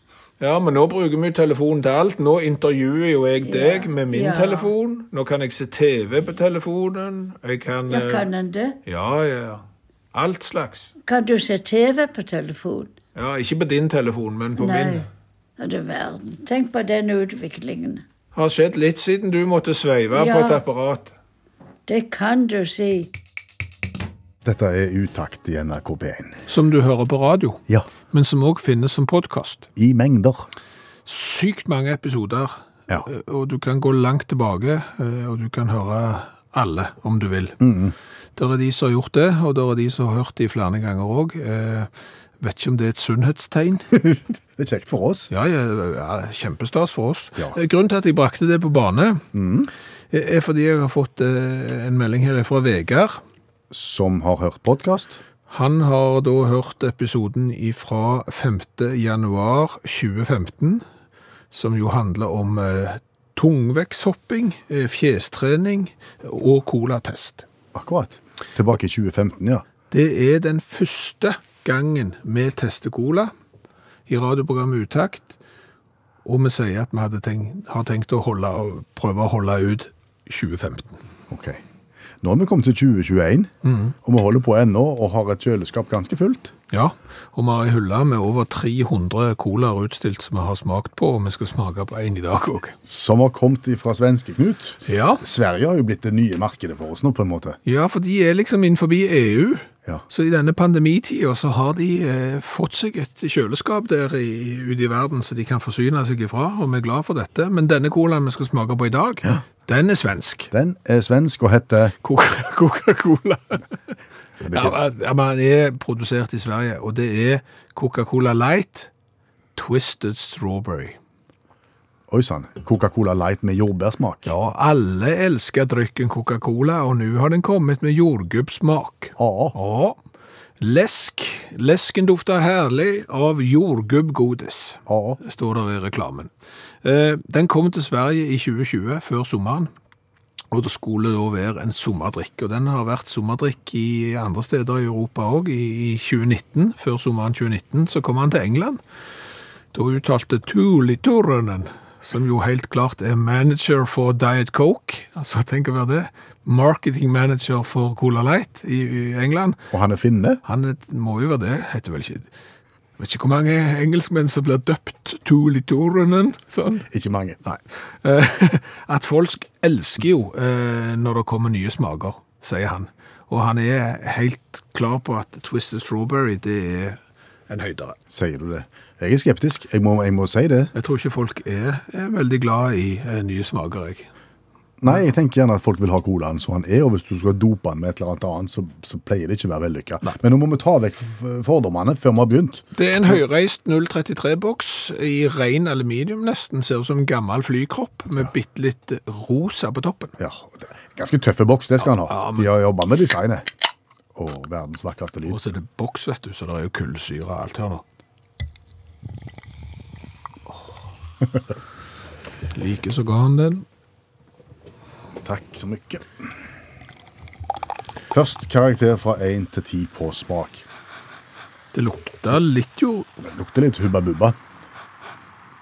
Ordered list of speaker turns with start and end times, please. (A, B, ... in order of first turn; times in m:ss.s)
0:00.4-0:08.3 A
0:03.4-0:04.7 B
0:07.9-0:08.8 B
0:08.9-0:10.9 A
0:11.1-0:12.9 B
0:13.2-0:15.1 A
0:14.6-0:15.1 B
0:15.6-0:18.0 B
0:18.3-0:21.1 A
0:20.1-0:20.6 B
0:21.9-0:23.1 B
0:24.4-0:26.4 C
0:26.5-0:29.7 A
0:29.8-0:30.5 C
0:31.1-0:37.6 A
0:37.6-0:38.0 C
0:38.4-0:41.9 A
0:42.4-0:44.0 A
0:44.1-0:45.3 C
0:45.3-0:49.2 A
0:49.3-0:49.7 C
0:50.1-0:53.2 A
0:53.7-0:55.2 C
0:55.5-1:00.8 A
1:01.5-1:07.4 A
1:07.7-1:09.6 C
1:09.9-1:13.3 A
1:14.1-1:15.4 A
1:16.2-1:21.0 A
1:21.3-1:21.6 C
1:22.2-1:23.5 C
1:23.6-1:23.9 A
1:24.0-1:26.5 C
1:26.7-1:32.8 A
1:32.8-1:37.6 C
1:34.9-1:35.2 A
1:37.7-1:50.5 A
1:50.5-1:52.0 C
1:52.0-1:53.6 A
1:54.4-1:54.8 C
1:54.5-1:58.9 A
1:59.6-2:01.0 A
2:02.1-2:04.3 C
2:04.3-2:10.0 A
2:09.2-2:09.6 C
2:10.6-2:16.3 A
2:14.9-2:15.2 C
2:16.8-2:19.7 A
2:20.5-2:28.8 A
2:29.7-2:39.6 A
2:39.7-2:40.4 C
2:40.4-2:42.3 A
2:43.0-2:46.9 A
2:46.9-2:47.4 C
2:47.4-2:57.0 A
2:57.5-2:58.0 A
2:58.1-3:00.7 C
3:00.7-3:04.1 A
3:04.8-3:13.2 C
3:12.8-3:20.2 A
3:20.2-3:23.5 C
3:22.0-3:22.5 A
3:24.2-3:25.4 C
3:25.3-3:27.8 A
3:32.5-3:33.6 A
3:35.2-3:36.2 C
3:38.1-3:40.7 C
3:41.7-3:43.1 A
3:43.2-3:44.4 C